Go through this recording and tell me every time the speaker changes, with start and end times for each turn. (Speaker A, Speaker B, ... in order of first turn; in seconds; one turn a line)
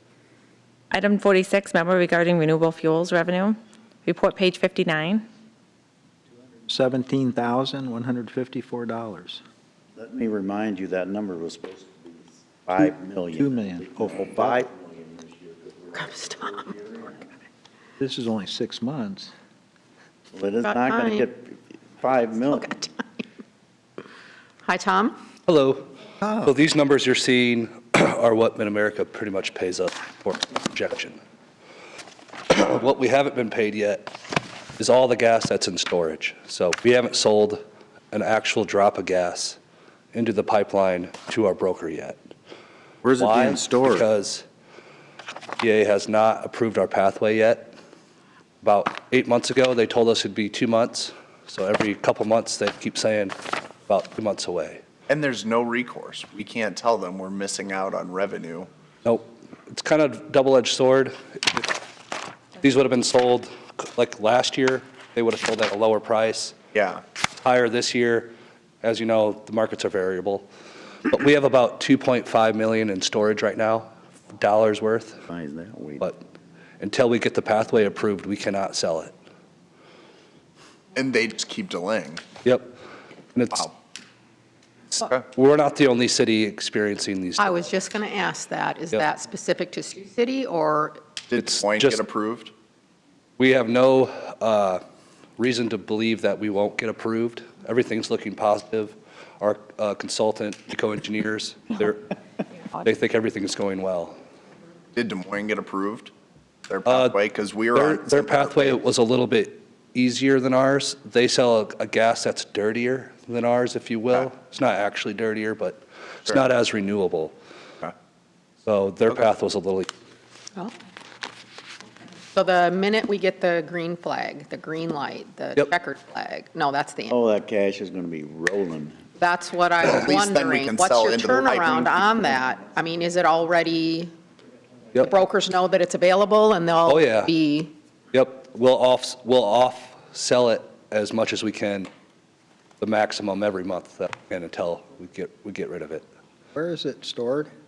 Speaker A: 0.9-5.2
Speaker B: 6.7-9.4
Speaker C: 10.0-17.2
Speaker B: 12.8-14.6
Speaker D: 15.9-16.6
Speaker B: 18.0-19.3
Speaker C: 20.3-22.7
Speaker D: 20.6-21.3
Speaker D: 22.5-22.9
Speaker D: 24.6-25.2
Speaker E: 25.5-25.9
Speaker B: 26.2-26.5
Speaker E: 26.4-31.2
Speaker E: 32.5-34.2
Speaker E: 34.8-37.6
Speaker E: 38.1-39.6
Speaker E: 40.1-42.2
Speaker C: 43.0-44.1
Speaker E: 43.2-44.5
Speaker E: 45.6-47.7
Speaker E: 48.6-54.8
Speaker F: 55.1-58.7
Speaker E: 59.0-61.7
Speaker E: 62.6-66.5
Speaker F: 66.7-67.0
Speaker E: 67.4-70.5
Speaker E: 71.0-75.2
Speaker C: 75.3-76.1
Speaker E: 76.8-79.1
Speaker F: 80.9-82.2
Speaker E: 82.4-82.7
Speaker E: 83.3-83.7
Speaker E: 85.3-87.5
Speaker D: 87.4-91.0
Speaker F: 91.3-92.5
Speaker E: 91.4-92.0
Speaker E: 93.4-94.8
Speaker E: 95.4-102.1
Speaker E: 102.8-104.2
Speaker F: 104.9-106.1
Speaker F: 106.7-108.8
Speaker E: 106.8-107.2
Speaker E: 107.7-117.3
Speaker E: 118.6-119.9
Speaker D: 122.3-127.2
Speaker C: 127.1-129.1
Speaker D: 129.2-134.1
Speaker F: 129.8-132.3
Speaker D: 135.0-137.7
Speaker E: 136.9-137.3
Speaker E: 138.1-141.9
Speaker E: 142.8-146.0
Speaker B: 146.6-147.5